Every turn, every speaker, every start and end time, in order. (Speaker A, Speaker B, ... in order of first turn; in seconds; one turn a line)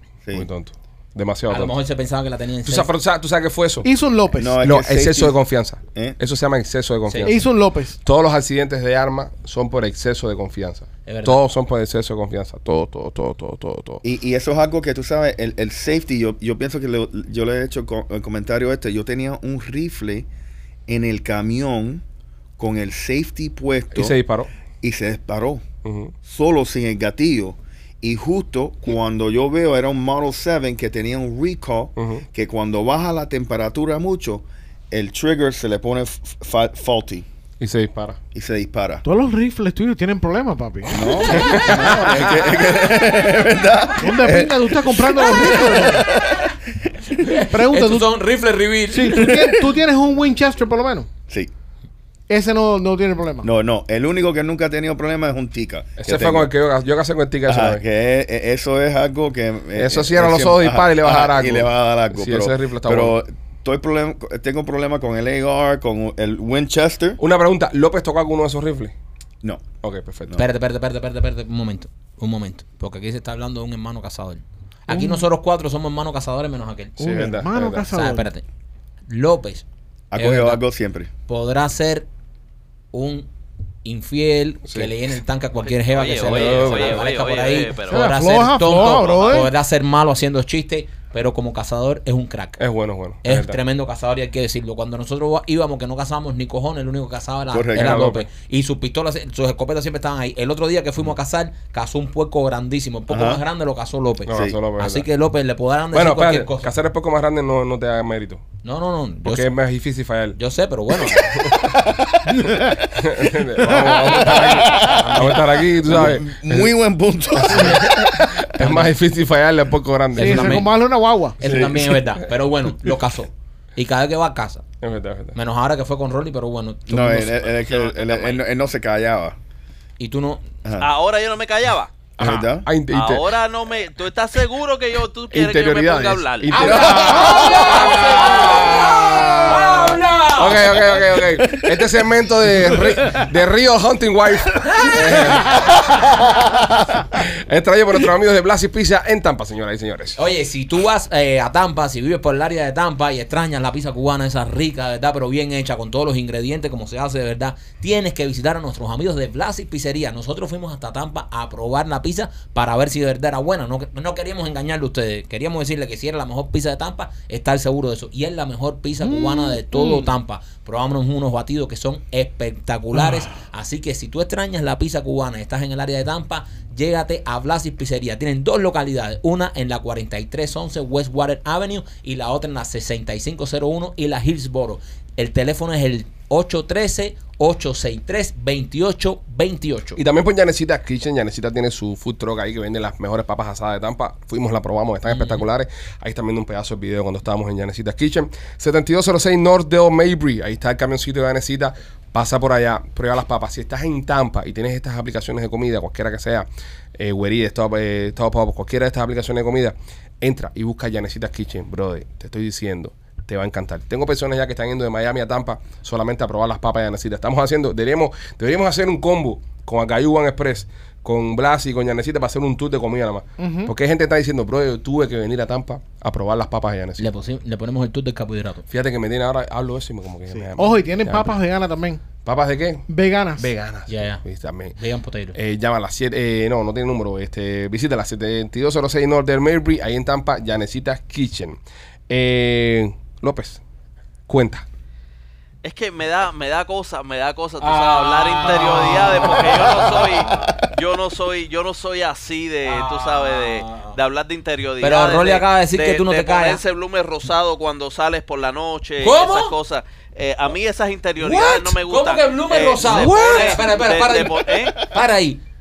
Speaker A: 0.3-1.8
Speaker B: 1.5-2.9
Speaker A: 2.6-3.9
Speaker C: 3.8-4.6
Speaker D: 4.4-5.4
Speaker A: 4.6-7.5
Speaker B: 7.1-7.3
Speaker C: 7.2-8.0
Speaker A: 8.0-14.0
Speaker B: 11.1-11.4
Speaker D: 14.0-20.3
Speaker D: 20.9-22.0
Speaker D: 22.6-24.1
Speaker A: 23.9-24.5
Speaker D: 24.8-25.6
Speaker A: 25.8-26.1
Speaker D: 26.2-37.3
Speaker A: 32.0-32.2
Speaker A: 37.6-38.2
Speaker D: 38.3-39.0
Speaker C: 39.0-41.4
Speaker D: 40.9-44.4
Speaker B: 41.0-42.6
Speaker A: 41.3-42.4
Speaker C: 44.0-46.1
Speaker A: 44.2-44.8
Speaker D: 45.2-47.2
Speaker B: 47.2-49.6
Speaker C: 47.4-48.1
Speaker C: 48.9-51.1
Speaker C: 52.3-53.5
Speaker D: 53.4-56.5
Speaker A: 56.0-57.8
Speaker D: 57.5-67.2
Speaker A: 59.7-63.2
Speaker A: 67.2-68.9
Speaker A: 69.8-70.4
Speaker B: 70.4-77.0
Speaker C: 74.9-75.3
Speaker A: 77.0-77.8
Speaker C: 77.0-78.3
Speaker B: 77.8-78.4
Speaker B: 79.1-79.6
Speaker D: 80.1-81.1
Speaker B: 80.2-80.6
Speaker B: 81.3-82.1
Speaker B: 82.9-83.3
Speaker B: 83.8-92.6
Speaker E: 85.7-88.0
Speaker A: 86.2-87.0
Speaker C: 87.9-89.5
Speaker E: 89.1-89.4
Speaker A: 92.6-93.6
Speaker B: 93.2-106.7
Speaker D: 97.5-98.1
Speaker A: 97.7-98.3
Speaker D: 103.1-103.4
Speaker D: 104.3-104.6
Speaker A: 104.3-105.1
Speaker A: 105.9-108.4
Speaker B: 108.6-109.5
Speaker A: 109.2-110.4
Speaker B: 110.3-111.5
Speaker A: 111.1-111.5
Speaker D: 111.5-112.7
Speaker C: 112.3-112.9
Speaker A: 113.0-116.7
Speaker C: 113.6-114.2
Speaker D: 114.2-118.2
Speaker B: 114.7-115.6
Speaker A: 117.3-120.7
Speaker B: 118.6-118.9
Speaker B: 120.1-120.7
Speaker C: 120.2-121.4
Speaker B: 121.4-124.6
Speaker D: 121.4-122.0
Speaker A: 124.8-125.3
Speaker B: 125.3-128.3
Speaker D: 126.9-129.4
Speaker E: 127.6-128.4
Speaker B: 130.0-130.4
Speaker D: 130.6-130.9
Speaker E: 130.8-131.9
Speaker A: 132.2-133.3
Speaker D: 132.2-132.7
Speaker E: 132.9-136.7
Speaker A: 135.3-146.3
Speaker B: 136.5-140.8
Speaker C: 136.7-137.4
Speaker D: 136.7-137.7
Speaker D: 140.9-141.9
Speaker B: 144.7-145.5
Speaker A: 147.0-150.2
Speaker B: 150.2-190.0
Speaker C: 169.0-170.1
Speaker C: 172.9-173.3
Speaker A: 190.0-227.1
Speaker B: 195.1-195.4
Speaker C: 223.4-223.7
Speaker B: 227.0-228.6
Speaker A: 228.7-231.3
Speaker C: 230.3-232.0
Speaker A: 232.2-234.7
Speaker C: 232.9-233.5
Speaker B: 233.9-235.4
Speaker A: 235.3-243.6
Speaker A: 244.3-244.6
Speaker E: 245.6-264.8
Speaker B: 247.6-250.6
Speaker B: 252.6-254.0
Speaker B: 254.8-256.6
Speaker B: 259.0-259.6
Speaker B: 261.2-265.4
Speaker A: 262.8-263.6